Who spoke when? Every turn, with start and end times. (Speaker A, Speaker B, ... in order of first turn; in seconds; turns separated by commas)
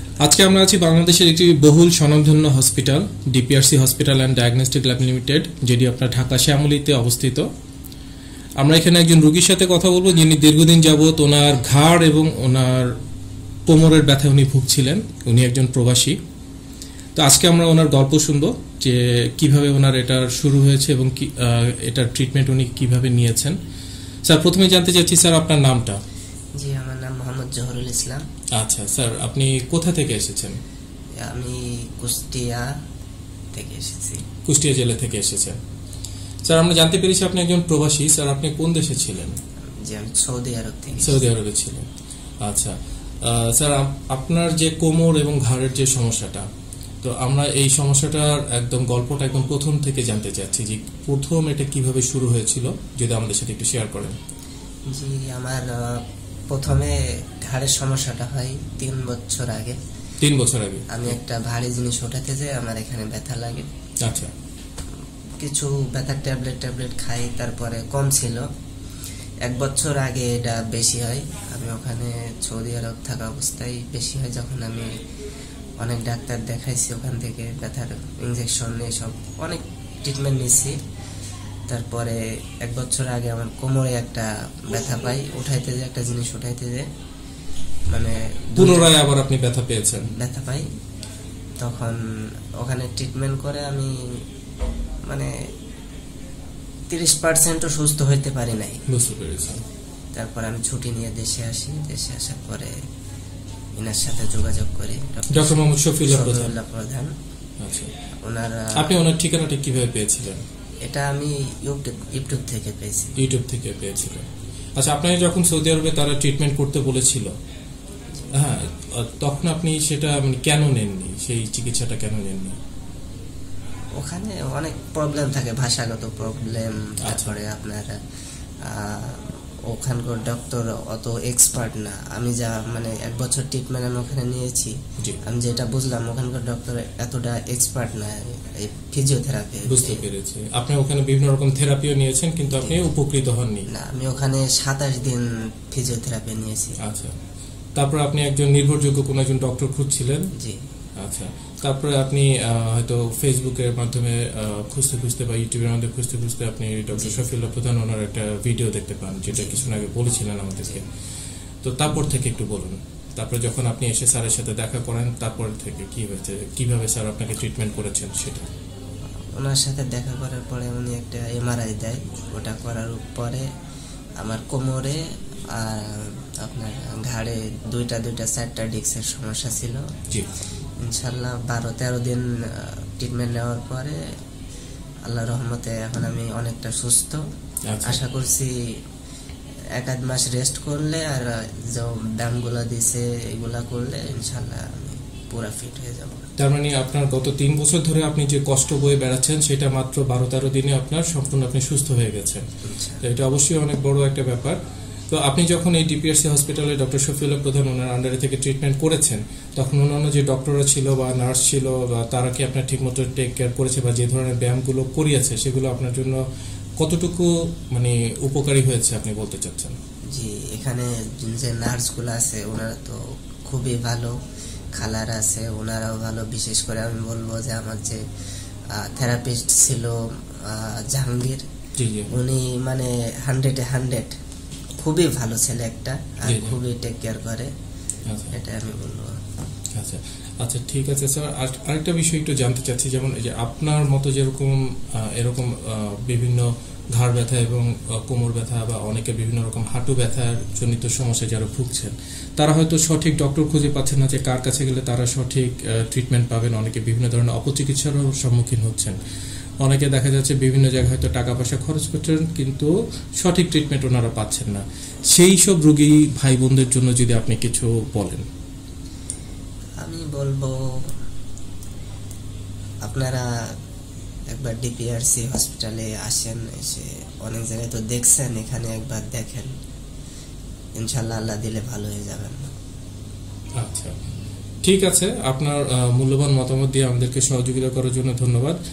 Speaker A: 0.2-7.5, Speaker A: 8.6-13.0, Speaker A: 13.7-16.2, Speaker A: 17.1-23.6, Speaker A: 24.2-26.0, Speaker B: 26.6-28.2, Speaker A: 28.5-30.6, Speaker B: 31.2-32.7, Speaker B: 33.5-34.2, Speaker A: 34.4-35.6, Speaker A: 36.4-39.4, Speaker B: 39.8-41.2, Speaker A: 41.0-41.9, Speaker A: 42.4-46.5, Speaker A: 47.0-54.2, Speaker B: 54.9-59.8, Speaker A: 60.2-61.0, Speaker B: 60.9-63.7, Speaker A: 64.0-64.3, Speaker B: 65.4-68.4, Speaker B: 69.4-74.9, Speaker B: 75.8-80.8, Speaker B: 81.7-86.8, Speaker B: 87.9-88.9, Speaker A: 88.6-90.1, Speaker B: 90.1-90.7, Speaker B: 91.6-92.0, Speaker B: 92.6-94.0, Speaker B: 95.1-95.3, Speaker B: 96.9-98.8, Speaker A: 98.9-99.6, Speaker B: 100.1-102.8, Speaker B: 103.8-107.1, Speaker A: 105.3-106.5, Speaker A: 107.6-107.9, Speaker B: 108.2-108.9, Speaker A: 108.8-110.4, Speaker B: 110.8-113.2, Speaker A: 113.2-117.3, Speaker A: 118.3-122.6, Speaker B: 124.0-128.0, Speaker A: 127.0-127.4, Speaker B: 128.6-140.1, Speaker A: 139.7-143.7, Speaker B: 143.7-146.8, Speaker A: 146.8-147.2, Speaker A: 147.7-150.3, Speaker B: 150.3-150.6, Speaker A: 151.0-160.9, Speaker B: 156.9-157.2, Speaker B: 159.3-159.6, Speaker A: 161.6-168.5, Speaker B: 169.3-173.5, Speaker B: 174.2-175.0, Speaker B: 175.5-179.8, Speaker B: 180.8-184.0, Speaker B: 185.1-187.2, Speaker A: 187.7-188.0, Speaker B: 187.8-188.8, Speaker B: 189.8-196.3, Speaker A: 196.4-202.4, Speaker B: 202.6-203.0, Speaker A: 203.0-204.6, Speaker A: 205.1-216.2, Speaker A: 216.8-219.8, Speaker B: 220.1-224.2, Speaker B: 224.7-228.0, Speaker B: 228.7-231.4, Speaker A: 231.8-232.1, Speaker B: 232.1-234.1, Speaker B: 234.8-237.5, Speaker A: 236.2-236.6, Speaker A: 238.1-238.3, Speaker B: 238.3-239.2, Speaker A: 239.7-259.0, Speaker A: 259.6-268.2, Speaker B: 269.8-270.9, Speaker B: 272.8-273.3, Speaker B: 274.3-279.5, Speaker B: 280.8-282.5, Speaker A: 283.6-283.9, Speaker A: 284.6-288.6